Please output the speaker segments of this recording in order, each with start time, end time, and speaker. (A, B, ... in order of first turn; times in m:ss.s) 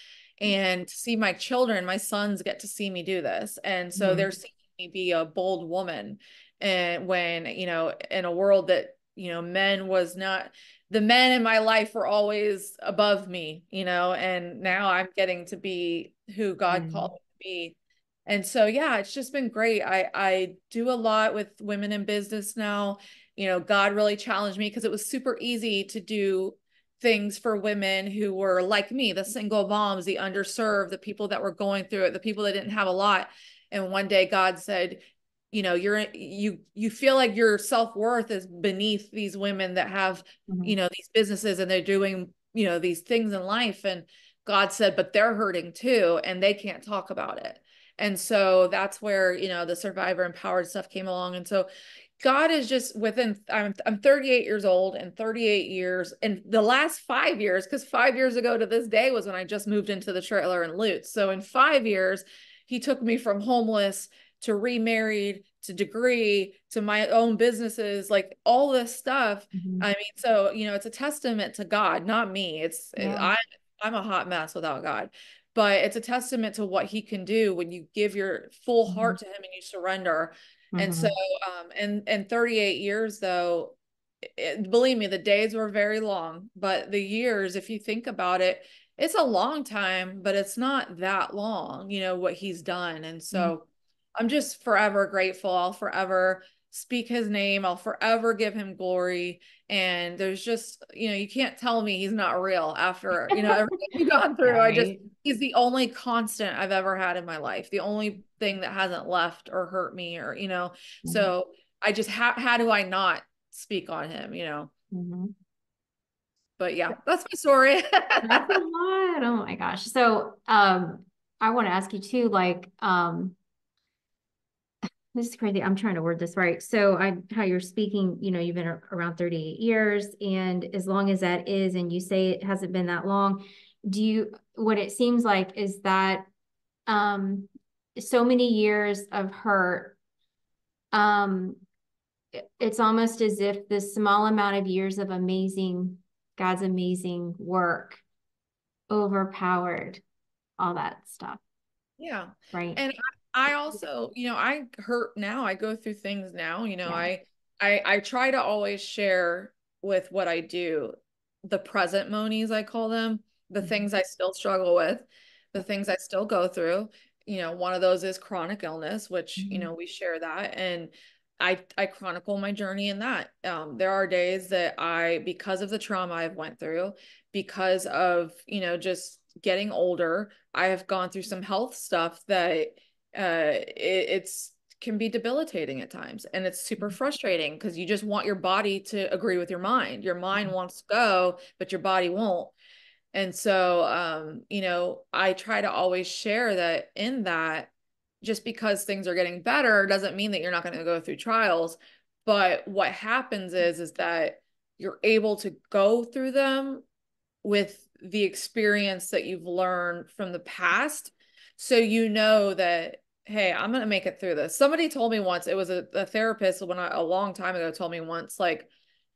0:00.4-0:17.7 A
0:03.9-0:04.3 B
0:16.7-0:17.1 B
0:18.3-0:51.7 A
0:40.5-0:40.8 B
0:52.2-1:33.6 A
1:09.5-1:09.9 B
1:13.0-1:13.3 B
1:18.9-1:19.2 B
1:20.7-1:21.1 B
1:34.2-1:54.7 A
1:43.3-1:43.6 B
1:44.4-1:45.1 B
1:51.0-1:51.3 B
1:54.9-1:55.3 B
1:56.6-1:58.6 A
1:58.2-2:03.4 B
2:05.1-2:16.3 B
2:16.9-2:20.0 B
2:20.9-2:21.6 B
2:22.3-2:28.0 B
2:28.9-2:30.0 B
2:30.6-2:31.4 B
2:32.0-3:12.5 A
2:32.5-2:32.8 B
2:36.8-2:37.1 B
2:49.4-2:49.7 B
3:13.1-3:17.7 A
3:18.2-3:26.8 A
3:27.4-3:38.7 A